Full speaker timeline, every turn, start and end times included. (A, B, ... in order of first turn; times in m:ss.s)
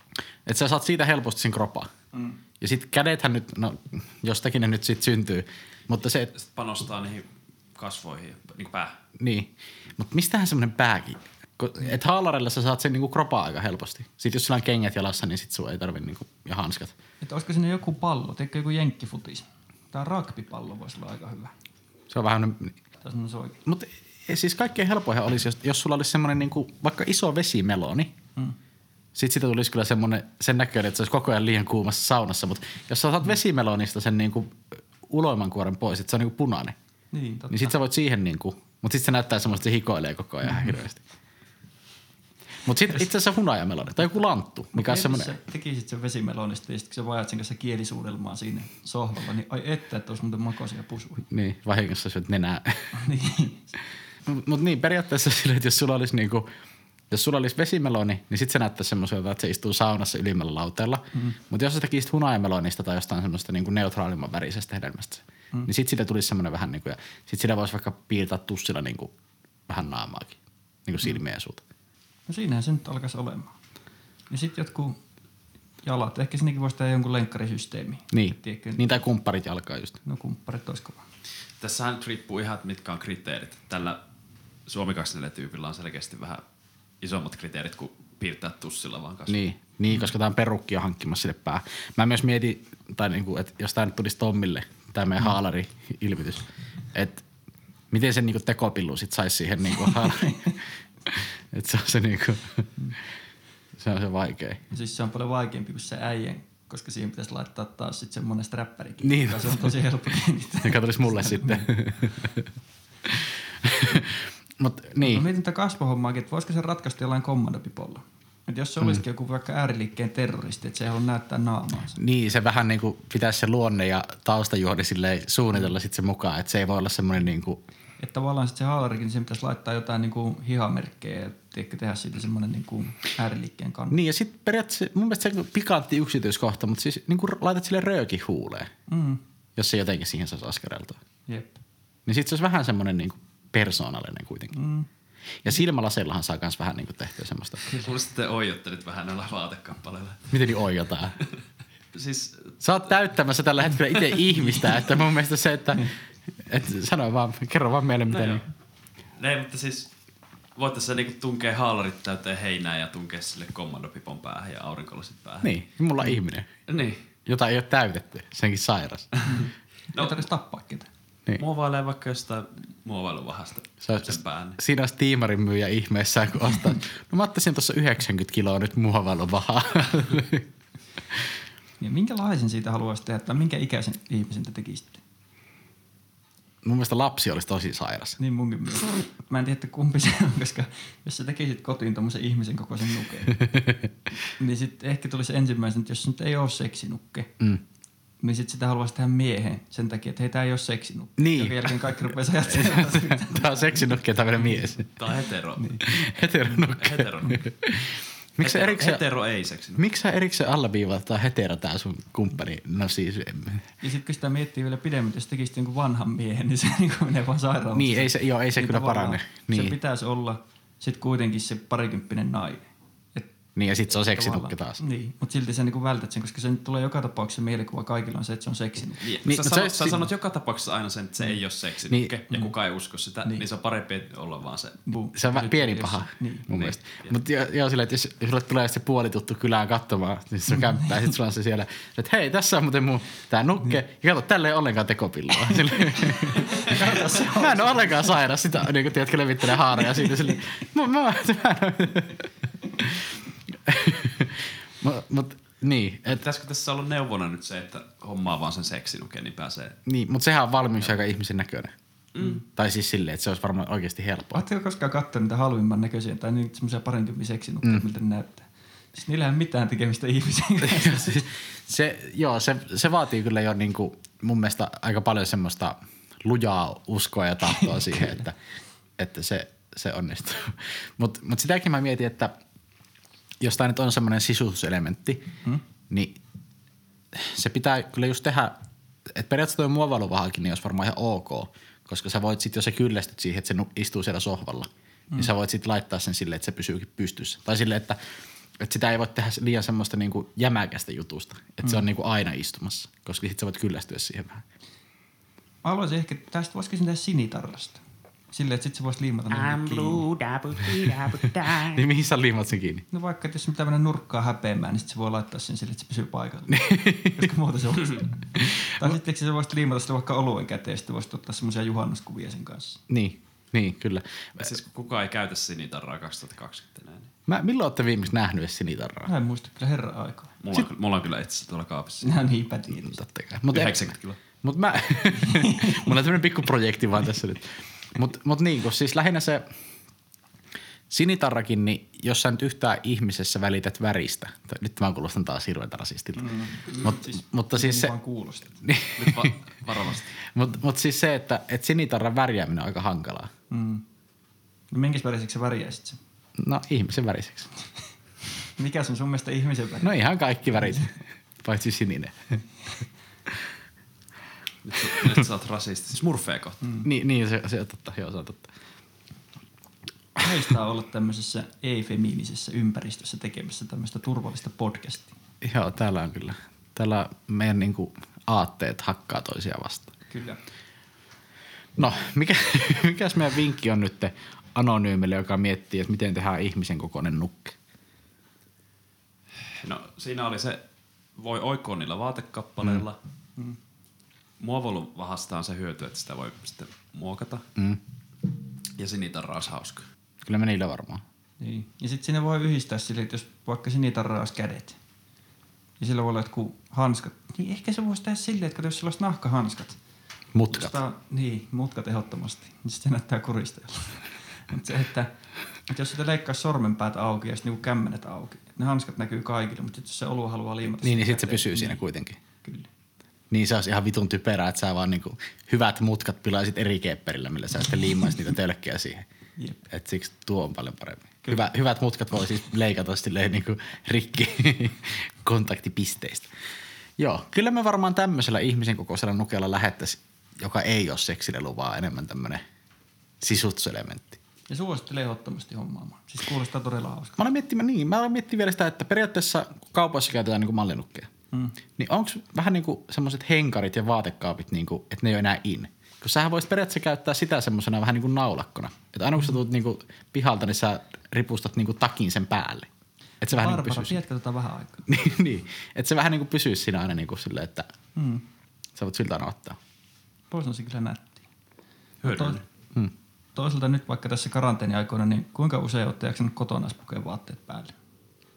0:00.4-0:01.9 A
0:02.1-0:02.4 B
0:02.6-0:06.3 A
0:06.3-0:08.9 C
0:09.2-0:16.9 A
0:17.2-0:21.5 B
0:22.1-0:22.8 A
0:23.0-0:23.6 B
0:23.7-0:28.2 A
0:29.2-0:36.8 A
0:37.1-0:37.7 B
0:37.5-0:41.0 A
0:42.6-0:45.4 A
0:44.7-0:51.2 B
0:51.3-0:52.9 A
0:52.9-0:53.6 B
0:54.2-0:56.5 A
0:57.1-1:09.1 A
1:09.7-1:11.6 A
1:12.3-1:13.5 B
1:14.3-1:15.0 B
1:15.8-1:19.0 B
1:18.1-1:20.0 A
1:20.0-1:21.0 B
1:21.6-1:24.0 C
1:24.7-1:26.4 C
1:27.0-1:29.4 C
1:29.3-1:37.2 A
1:37.9-1:40.5 A
1:39.7-1:40.6 B
1:41.1-1:42.7 A
1:43.8-1:44.6 A
1:44.7-1:51.7 B
1:49.0-1:49.7 A
1:50.6-1:52.4 A
1:53.1-1:55.2 A
1:55.0-2:02.0 B
2:02.0-2:07.6 A
2:08.0-2:14.0 B
2:13.9-2:18.7 A
2:18.9-2:19.2 B
2:19.6-2:21.0 A
2:21.3-2:21.6 B
2:22.1-2:24.6 A
2:24.5-2:24.9 B
2:25.4-2:27.7 A
2:27.7-2:30.3 C
2:30.3-2:31.2 A
2:31.9-2:32.5 C
2:32.6-2:35.9 A
2:36.4-2:38.4 A
2:38.1-2:38.4 C
2:39.2-2:39.9 C
2:40.6-2:45.5 C
2:45.4-2:46.5 A
2:46.7-2:47.0 C
2:47.2-2:49.1 A
2:49.3-2:50.9 B
2:49.9-2:50.2 C
2:51.4-2:54.6 C
2:53.8-3:00.4 A
3:01.8-3:05.0 B
3:06.6-3:08.2 A
3:08.2-3:13.4 B
3:14.4-3:17.3 B
3:18.2-3:24.6 B
3:21.2-3:21.8 A
3:22.5-3:24.9 A
3:25.0-3:25.8 C
3:25.6-3:25.8 B
3:25.8-3:29.0 A
3:26.8-3:27.4 C
3:28.4-3:29.8 C
3:29.8-3:33.6 A
3:33.8-3:43.3 B
3:37.8-3:39.8 A
3:43.6-3:44.8 A
3:43.9-3:49.0 B
3:49.0-3:54.8 C
3:49.2-3:50.0 A
3:54.8-3:56.5 B
3:55.2-4:13.1 A
3:56.5-3:57.2 C
4:06.4-4:08.1 B
4:06.5-4:06.8 C
4:13.6-4:16.2 A
4:16.1-4:19.8 C
4:19.9-4:21.7 A
4:22.2-4:22.4 C
4:22.4-4:24.4 A
4:24.3-4:31.2 B
4:30.6-4:38.3 A
4:37.4-4:38.2 B
4:39.0-4:42.3 A
4:43.4-4:45.2 A
4:45.9-4:46.2 A
4:47.2-4:48.6 A
4:49.1-4:58.0 A
4:58.6-5:04.4 A
5:05.6-5:10.2 B
5:09.4-5:11.7 D
5:10.7-5:12.8 A
5:12.9-5:22.8 B
5:16.5-5:17.2 A
5:22.9-5:24.5 A
5:24.4-5:27.1 C
5:27.3-5:29.1 A
5:29.0-5:30.4 B
5:30.4-5:32.1 C
5:32.0-5:33.0 B
5:32.7-5:39.4 A
5:33.5-5:34.2 C
5:35.2-5:35.9 B
5:40.9-5:47.9 A
5:46.2-5:48.6 B
5:48.6-5:49.3 A
5:49.0-5:50.1 C
5:50.3-5:53.3 A
5:53.5-5:53.8 B
5:54.7-5:56.0 B
5:56.4-5:57.5 A
5:58.6-6:00.0 B
5:59.8-6:02.4 A
6:04.6-6:06.6 C
6:06.8-6:08.5 A
6:10.2-6:15.1 B
6:15.4-6:19.9 A
6:20.1-6:20.4 B
6:21.8-6:27.6 A
6:29.6-6:30.6 C
6:31.2-6:33.0 C
6:34.4-6:37.4 C
6:38.8-6:39.8 C
6:40.2-6:41.0 A
6:41.4-6:44.8 B
6:45.8-6:49.8 B
6:50.3-6:50.8 A
6:50.5-6:55.1 B
6:55.7-7:01.8 B
7:00.8-7:02.2 A
7:02.4-7:02.7 B
7:03.3-7:09.0 A
7:09.4-7:09.6 B
7:09.7-7:16.3 A
7:17.0-7:22.4 A
7:23.2-7:24.2 A
7:24.5-7:27.2 B
7:27.2-7:31.1 A
7:31.8-7:42.7 A
7:43.2-7:44.0 A
7:43.3-7:44.8 B
7:44.9-7:47.7 A
7:47.9-7:48.2 B
7:48.8-7:49.6 A
7:50.3-7:51.3 B
7:52.0-7:52.4 C
7:52.0-7:52.4 B
7:53.3-7:57.7 B